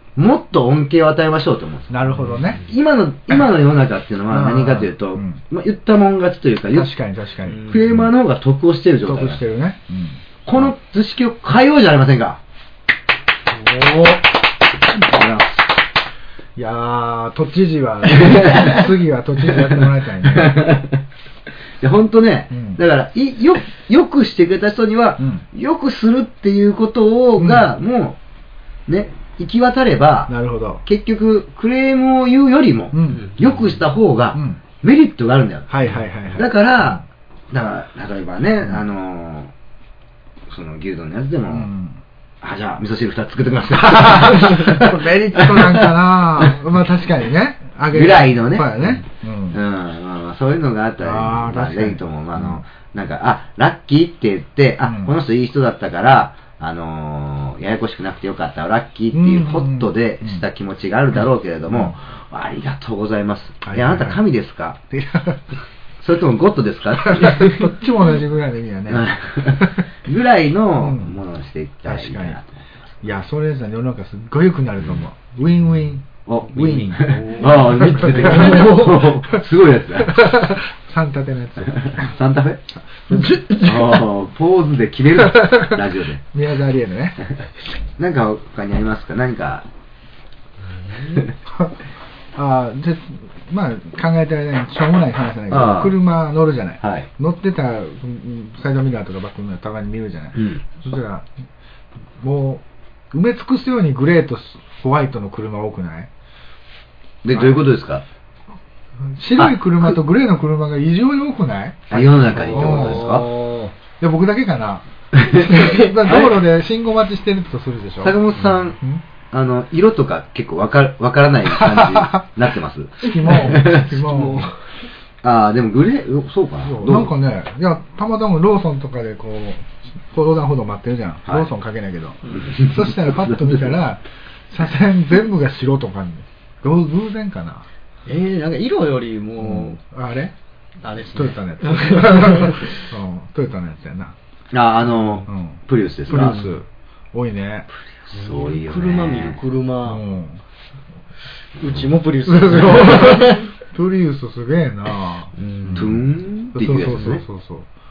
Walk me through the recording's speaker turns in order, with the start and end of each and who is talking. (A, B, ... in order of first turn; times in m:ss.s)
0:00.2-0:06.9 A
0:01.9-0:02.6 B
0:04.3-0:05.4 B
0:06.7-0:08.1 B
0:07.6-0:09.4 A
0:09.0-0:10.7 B
0:10.4-0:12.4 A
0:14.9-0:15.6 A
0:16.6-0:20.7 B
0:18.1-0:18.9 A
0:20.2-0:21.0 A
0:21.8-0:28.2 A
0:22.5-0:22.8 B
0:25.2-0:25.4 B
0:27.4-0:27.7 B
0:28.9-0:30.3 A
0:30.3-0:30.8 B
0:30.8-0:35.7 A
0:32.9-0:33.3 B
0:33.2-0:33.6 C
0:34.3-0:34.6 B
0:35.7-0:37.0 B
0:36.3-0:39.5 A
0:40.5-0:41.7 A
0:41.5-0:42.0 B
0:42.4-0:45.9 A
0:43.8-0:49.6 B
0:47.9-1:04.8 A
0:51.0-0:52.6 B
0:54.8-0:55.1 B
0:59.1-1:00.4 B
1:01.7-1:02.0 B
1:03.6-1:04.2 B
1:04.9-1:05.4 B
1:06.0-1:07.7 A
1:07.0-1:09.8 B
1:08.9-1:12.6 A
1:10.8-1:11.2 B
1:11.9-1:12.4 B
1:13.0-1:18.9 B
1:16.2-1:20.3 A
1:17.0-1:17.6 C
1:18.3-1:18.8 C
1:20.1-1:22.1 B
1:21.7-1:22.6 A
1:23.0-1:24.0 B
1:23.5-1:26.2 A
1:25.3-1:25.7 B
1:26.3-1:27.3 B
1:28.0-1:29.6 A
1:31.5-1:31.8 B
1:32.4-1:41.3 B
1:35.5-1:36.0 A
1:36.8-1:37.1 A
1:40.4-1:40.6 A
1:42.2-1:46.1 B
1:47.2-1:48.0 A
1:49.1-1:53.2 B
1:49.4-1:49.9 A
1:51.9-1:53.4 A
1:52.5-1:53.7 C
1:54.0-1:58.2 B
1:55.2-1:56.4 A
1:58.0-1:58.8 A
1:59.3-2:04.1 A
2:01.6-2:02.2 B
2:03.0-2:04.5 B
2:04.0-2:04.5 C
2:05.2-2:07.1 A
2:06.6-2:17.7 B
2:12.3-2:13.7 A
2:18.0-2:19.8 C
2:19.4-2:20.3 B
2:20.8-2:22.7 C
2:21.1-2:24.1 B
2:24.5-2:26.5 A
2:25.2-2:27.7 B
2:28.0-2:29.4 A
2:28.1-2:30.0 C
2:29.9-2:30.4 B
2:31.6-2:33.4 C
2:32.3-2:35.9 B
2:35.4-2:36.0 C
2:35.7-2:37.2 A
2:36.6-2:37.6 B